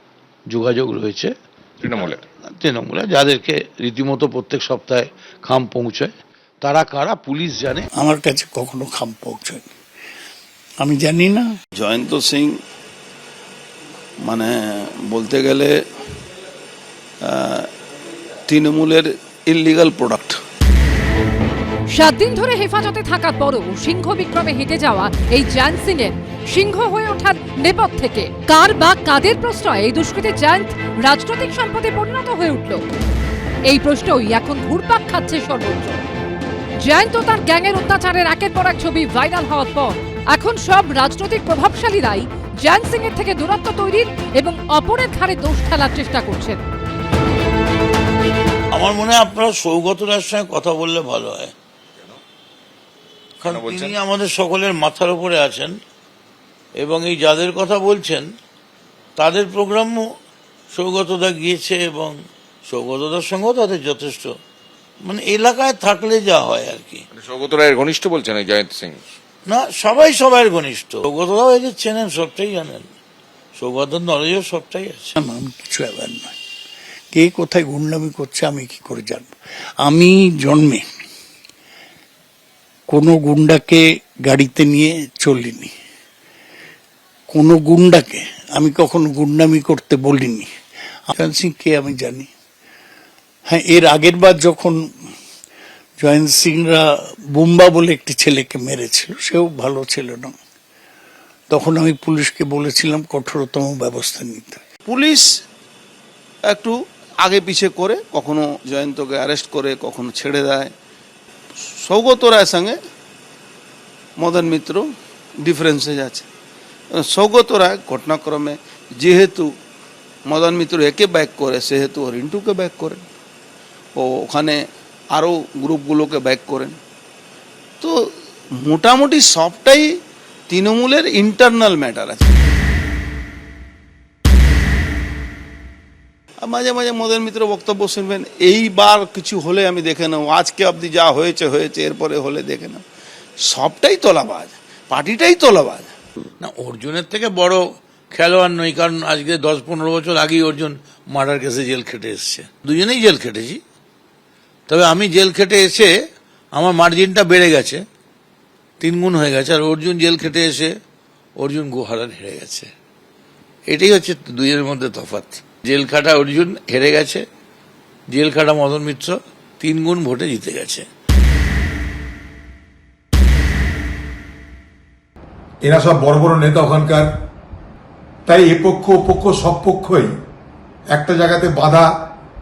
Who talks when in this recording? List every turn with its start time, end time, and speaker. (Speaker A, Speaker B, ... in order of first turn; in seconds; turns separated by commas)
Speaker A: 0.5-1.3, Speaker B: 1.8-2.2, Speaker A: 2.6-7.9, Speaker C: 8.0-9.7, Speaker C: 10.8-11.5, Speaker D: 11.8-12.5, Speaker D: 14.2-15.7, Speaker D: 17.2-17.7, Speaker D: 18.5-20.4, Speaker E: 21.9-32.9, Speaker E: 33.7-36.0, Speaker E: 36.8-46.6, Speaker A: 48.7-51.5, Speaker A: 53.4-55.8, Speaker B: 53.5-53.9, Speaker A: 56.8-58.3, Speaker A: 59.2-60.0, Speaker A: 60.7-64.4, Speaker A: 65.0-67.0, Speaker B: 67.1-69.0, Speaker A: 69.5-72.9, Speaker A: 73.6-75.2, Speaker C: 75.2-76.3, Speaker C: 77.1-80.8, Speaker C: 82.9-85.7, Speaker C: 87.3-90.5, Speaker C: 91.1-92.3, Speaker C: 93.5-94.9, Speaker C: 96.0-100.4, Speaker C: 101.5-104.6, Speaker D: 104.9-105.3, Speaker D: 106.5-110.7, Speaker D: 111.8-112.8, Speaker D: 114.2-114.8, Speaker D: 115.4-116.3, Speaker D: 117.0-119.5, Speaker D: 120.3-123.0, Speaker D: 124.0-124.6, Speaker D: 125.1-126.8, Speaker D: 128.6-129.9, Speaker D: 130.5-132.3, Speaker D: 136.4-142.8, Speaker D: 143.4-145.9, Speaker A: 146.4-153.6, Speaker A: 154.7-155.9, Speaker A: 156.5-157.8, Speaker A: 158.8-160.7, Speaker A: 161.4-162.7, Speaker A: 163.7-167.2, Speaker A: 168.1-170.9, Speaker F: 175.6-177.1, Speaker F: 178.3-180.1, Speaker F: 180.9-181.9